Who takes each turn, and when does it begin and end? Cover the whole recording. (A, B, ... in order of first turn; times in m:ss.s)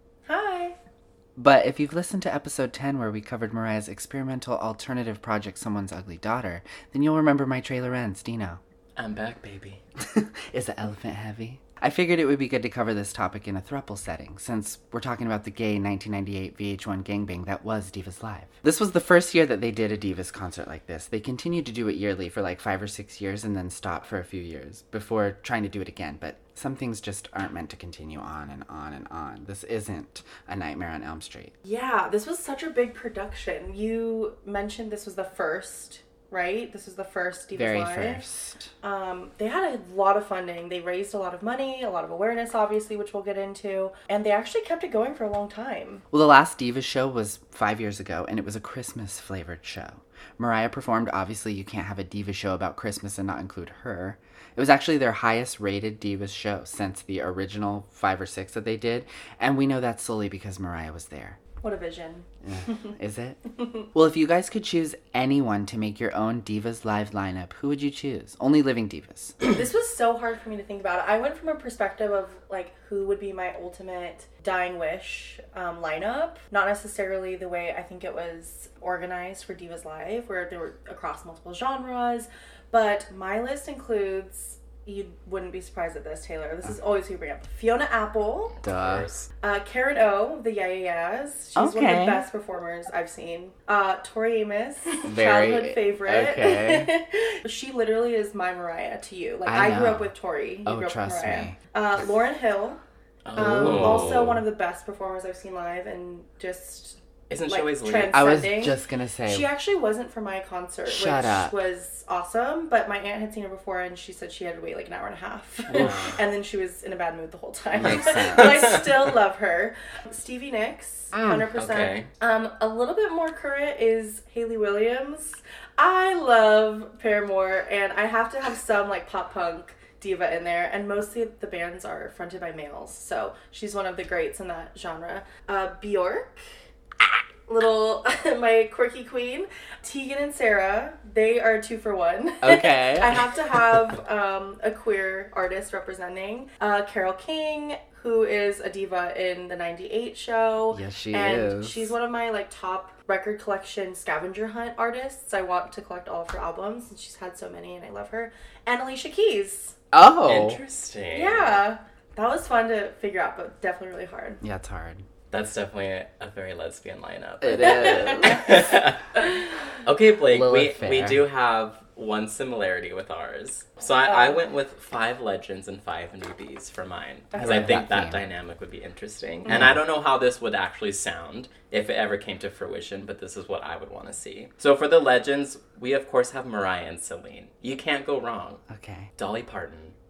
0:00.3-0:00.8 A
0:01.4-0:08.6 B
0:09.0-0:09.8 C
0:10.0-0:31.5 B
0:31.6-0:38.2 A
0:37.5-0:38.7 B
0:38.8-0:46.0 A
0:46.1-1:01.4 B
1:01.6-1:02.3 A
1:02.4-1:03.4 B
1:03.9-1:09.4 B
1:09.5-1:28.6 A
1:28.6-1:29.3 C
1:28.6-1:29.1 B
1:29.4-1:42.8 A
1:31.6-1:32.2 B
1:35.1-1:36.9 B
1:39.5-1:41.6 B
1:43.2-1:44.4 C
1:43.4-1:48.8 A
1:43.5-1:44.2 B
1:47.3-1:48.3 C
1:48.1-1:49.5 B
1:49.3-2:16.4 A
1:50.9-1:51.5 B
1:55.7-1:56.2 C
1:55.8-1:56.2 B
1:57.7-1:58.8 B
1:57.9-1:58.8 C
2:01.1-2:01.5 B
2:01.6-2:02.1 C
2:17.5-2:39.8 A
2:22.4-2:23.3 B
2:30.7-2:31.9 B
2:39.9-2:40.6 B
2:40.2-2:41.6 C
2:41.1-2:44.4 A
2:44.4-2:45.1 B
2:45.3-3:08.6 C
2:47.4-2:48.4 B
2:47.6-2:48.6 A
2:50.2-2:51.2 B
2:54.0-2:54.4 A
2:57.3-2:57.7 A
2:57.4-2:58.2 B
2:59.5-2:59.8 B
3:08.7-3:09.1 B
3:09.2-3:10.0 C